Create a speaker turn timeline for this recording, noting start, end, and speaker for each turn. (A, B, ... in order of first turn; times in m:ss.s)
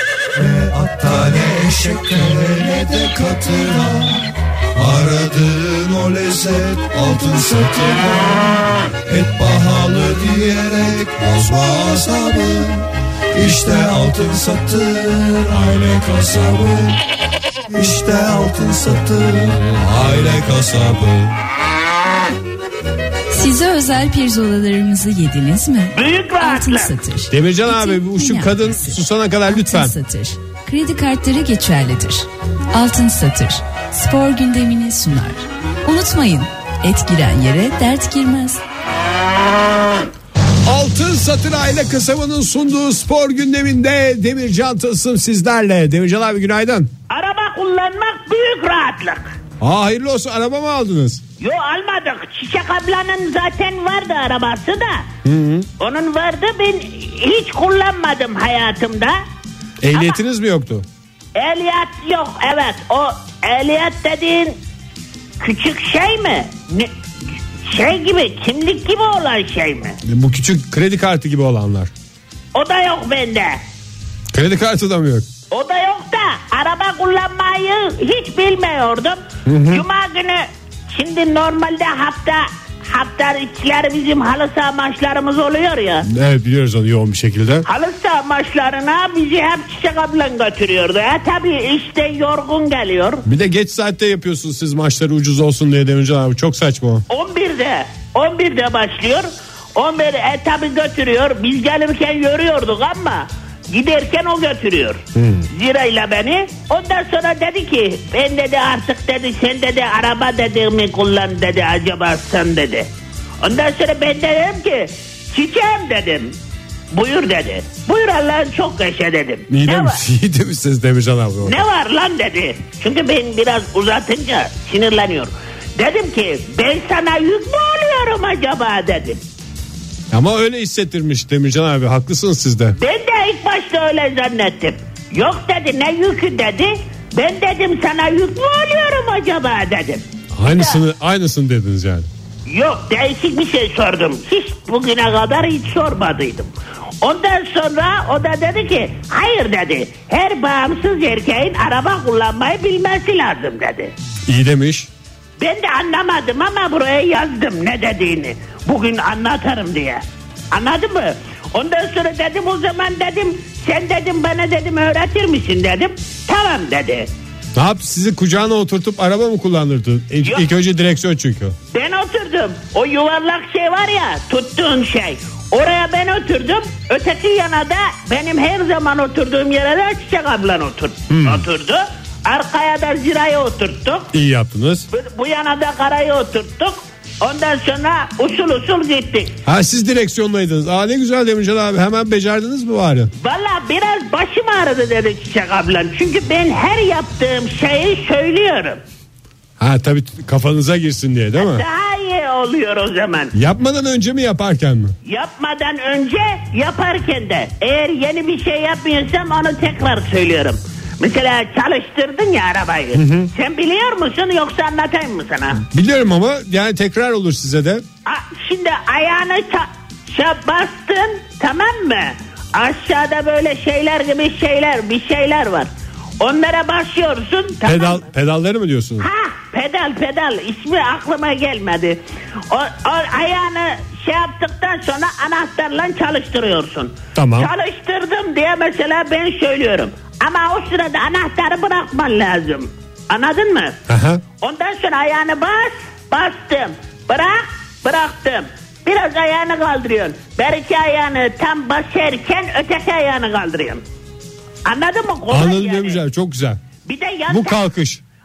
0:00.4-0:17.0 A
0:17.7-0:21.3 A
0:23.3-0:38.6 B
0:25.9-0:26.9 C
0:27.3-0:29.9 D
0:40.6-0:46.9 D
0:47.1-0:49.3 C
0:49.6-0:51.2 D
0:51.4-0:55.1 C
0:55.2-0:55.7 D
0:55.8-0:59.2 C
0:59.8-1:00.8 D
1:01.3-1:04.6 C
1:05.4-1:06.9 C
1:07.6-1:10.0 C
1:10.0-1:11.9 D
1:12.5-1:13.6 C
1:14.3-1:15.3 D
1:15.5-1:26.0 C
1:19.4-1:19.8 D
1:26.1-1:27.6 D
1:27.6-1:33.2 C
1:33.2-1:37.0 D
1:37.1-1:52.9 C
1:45.1-1:45.5 D
1:53.4-1:56.3 C
1:56.9-2:00.0 C
1:59.5-2:01.6 D
2:01.4-2:09.2 C
2:10.1-2:12.8 D
2:12.8-2:20.8 C
2:20.3-2:22.1 D
2:22.5-2:33.9 C
2:34.3-2:34.9 D
2:35.4-2:47.1 C
2:47.5-2:51.6 D
2:51.7-3:04.1 C
3:01.1-3:01.4 D
3:04.1-3:04.9 D
3:04.9-3:09.3 C
3:09.4-3:13.1 D
3:13.2-3:18.8 C
3:19.6-3:21.6 D
3:21.4-3:23.3 C
3:23.3-3:24.9 D
3:25.0-3:35.6 C
3:32.9-3:33.3 D
3:35.7-3:37.8 D
3:38.0-3:45.7 C
3:46.2-3:48.0 C
3:47.6-3:49.1 D
3:49.0-4:03.8 C
3:57.1-3:57.5 D
4:03.9-4:04.2 D
4:04.4-4:13.8 C
4:14.6-4:16.0 C
4:15.3-4:16.6 D
4:16.8-4:17.6 C
4:17.3-4:18.0 D